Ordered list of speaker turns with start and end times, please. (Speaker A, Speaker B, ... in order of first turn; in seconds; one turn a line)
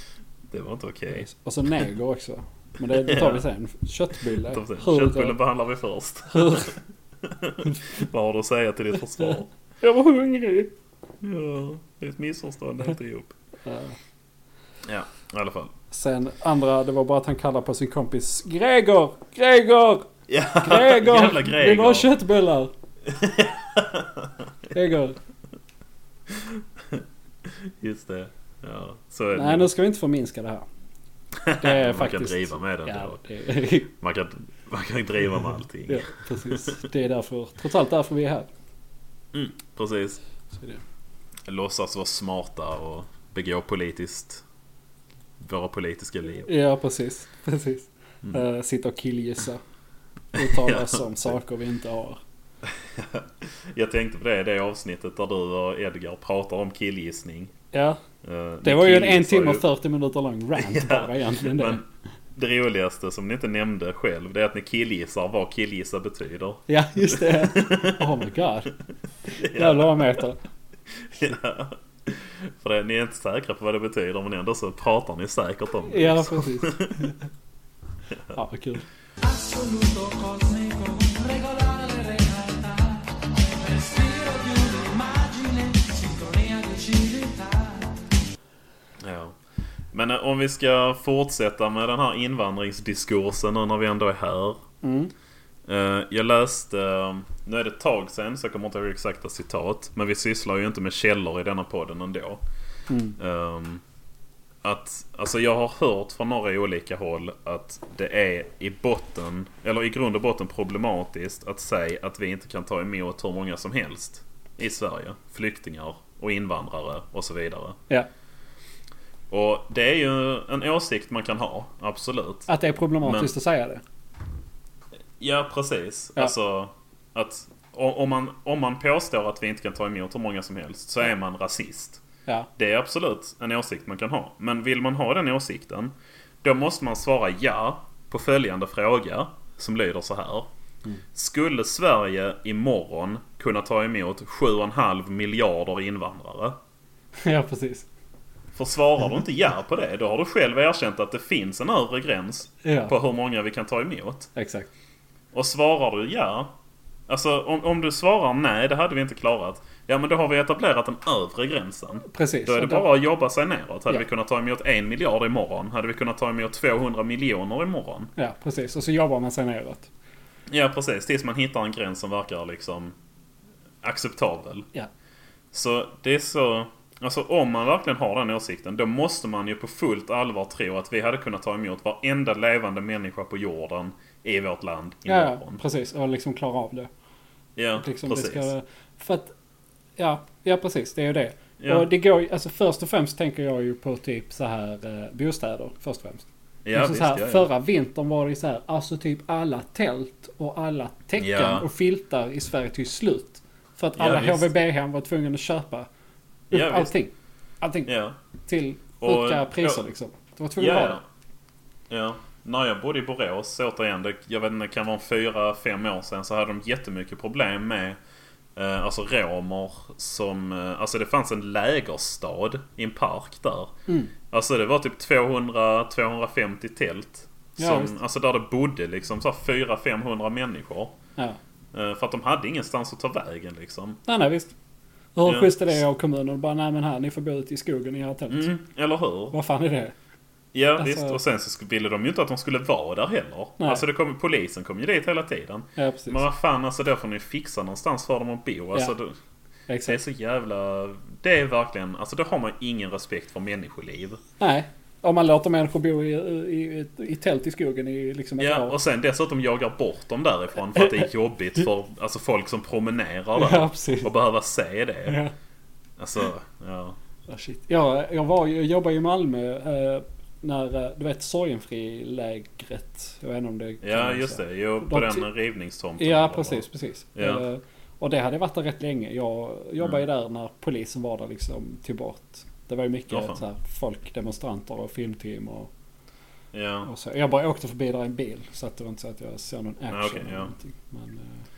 Speaker A: 0.5-1.3
Speaker B: 1.1-5.3
Speaker A: 2.9-3.4
Speaker A: 4.3-9.5
Speaker B: 6.3-6.7
Speaker B: 9.8-10.7
Speaker A: 11.2-13.3
Speaker B: 13.6-13.9
Speaker A: 14.8-15.7
Speaker B: 15.9-20.1
Speaker A: 20.3-22.1
Speaker B: 20.6-22.7
Speaker A: 23.1-24.4
Speaker B: 24.7-25.2
Speaker A: 26.3-29.7
Speaker B: 29.3-30.7
Speaker A: 31.3-33.2
Speaker B: 31.6-33.9
Speaker A: 33.9-36.8
Speaker B: 35.9-38.5
Speaker A: 39.3-40.2
Speaker B: 40.5-40.8
Speaker A: 41.5-44.4
Speaker A: 45.4-46.5
Speaker B: 46.5-49.6
Speaker B: 50.3-52.2
Speaker A: 50.4-51.0
Speaker A: 52.6-57.5
Speaker B: 57.7-58.0
Speaker A: 58.2-59.6
Speaker B: 58.6-61.8
Speaker A: 60.6-68.1
Speaker B: 66.7-68.7
Speaker B: 69.3-70.4
Speaker A: 69.3-70.2
Speaker A: 70.9-77.1
Speaker B: 75.8-77.2
Speaker A: 78.1-78.3
Speaker B: 78.3-78.8
Speaker C: 79.2-88.1
Speaker A: 89.0-89.4
Speaker A: 89.9-94.6
Speaker B: 94.8-95.1
Speaker A: 95.7-102.4
Speaker B: 102.9-103.2
Speaker A: 103.2-103.8
Speaker A: 104.6-117.8
Speaker A: 119.3-122.5
Speaker B: 122.5-123.8
Speaker A: 123.0-123.3
Speaker A: 125.2-132.0
Speaker A: 132.6-140.5
Speaker A: 141.1-146.6
Speaker B: 147.2-147.9
Speaker A: 148.5-154.3
Speaker B: 152.6-152.9
Speaker B: 154.3-154.7
Speaker A: 155.3-156.5
Speaker A: 157.1-168.1
Speaker B: 162.0-162.9
Speaker B: 168.2-169.9
Speaker A: 170.5-172.9
Speaker A: 173.8-174.7
Speaker A: 175.5-185.6
Speaker B: 185.1-186.9
Speaker A: 187.6-188.5
Speaker B: 187.8-189.3
Speaker B: 190.0-205.9
Speaker A: 191.6-191.9
Speaker A: 196.6-197.5
Speaker A: 201.2-201.7
Speaker A: 204.0-204.5
Speaker A: 206.5-206.9
Speaker B: 206.5-207.9
Speaker A: 207.8-208.2
Speaker B: 208.4-211.0
Speaker A: 209.0-209.8
Speaker A: 210.6-211.0
Speaker A: 211.9-218.0
Speaker A: 218.6-223.7
Speaker A: 224.3-231.0
Speaker B: 227.6-227.9
Speaker A: 231.7-234.0
Speaker B: 234.1-234.5
Speaker B: 235.2-238.5
Speaker A: 235.2-235.7
Speaker A: 238.3-239.3
Speaker B: 239.3-239.9
Speaker A: 240.5-249.1
Speaker B: 240.8-241.2
Speaker B: 245.8-246.2
Speaker B: 249.7-250.0
Speaker A: 249.8-254.2
Speaker B: 254.4-258.8
Speaker A: 258.4-265.2
Speaker B: 260.7-261.0
Speaker B: 263.4-264.1
Speaker B: 265.1-265.3
Speaker A: 266.0-267.0
Speaker B: 267.3-275.3
Speaker A: 273.8-276.6
Speaker B: 276.0-285.7
Speaker A: 277.1-277.4
Speaker A: 283.1-283.4
Speaker A: 286.5-286.9
Speaker B: 286.8-291.4
Speaker A: 289.9-290.5